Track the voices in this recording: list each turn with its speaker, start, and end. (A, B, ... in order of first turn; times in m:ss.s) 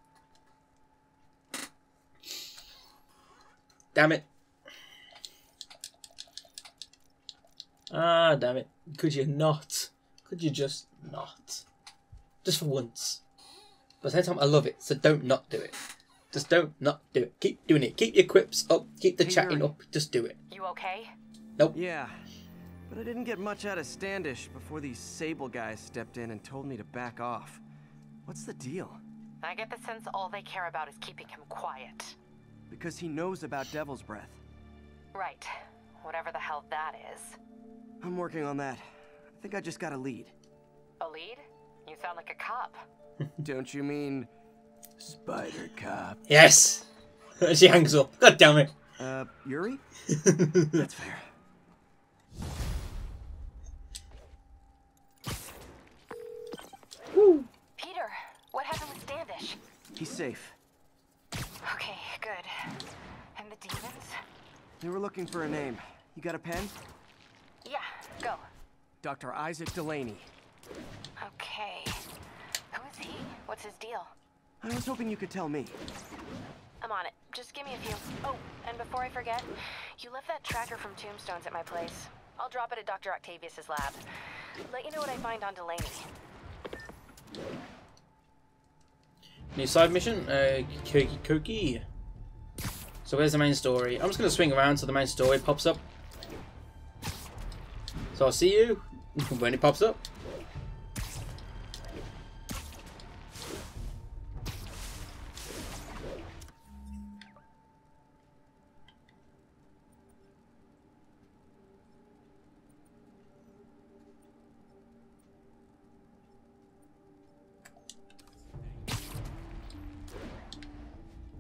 0:03.9-0:04.3 A
0:07.9-0:11.6 A
0:12.4-0:13.2 A
0:14.0-0:15.8 A
0:16.3-0:20.4 A
0:19.2-0:19.7 B
0:20.5-0:21.1 C
0:21.7-0:22.2 B
0:22.9-0:27.6 B
0:28.3-0:29.0 B
0:29.4-0:32.2 C
0:32.7-0:34.4 B
0:35.1-0:37.4 C
0:38.0-0:40.3 B
0:41.0-0:42.8 C
0:43.4-0:44.3 B
0:45.0-0:46.2 B
0:46.3-0:46.9 A
0:47.4-0:48.7 A
0:49.0-0:49.8 B
0:50.1-0:50.8 A
0:50.7-0:51.3 B
0:57.1-0:57.5 A
0:57.8-0:59.6 C
1:00.0-1:00.6 B
1:01.6-1:02.8 C
1:03.4-1:04.2 C
1:04.8-1:06.8 B
1:07.6-1:08.4 C
1:09.0-1:10.3 B
1:11.2-1:12.0 C
1:12.7-1:14.1 C
1:14.6-1:15.8 B
1:16.8-1:24.0 C
1:24.7-1:26.1 C
1:29.5-1:31.8 A
1:33.0-1:35.8 A
1:38.1-1:40.0 A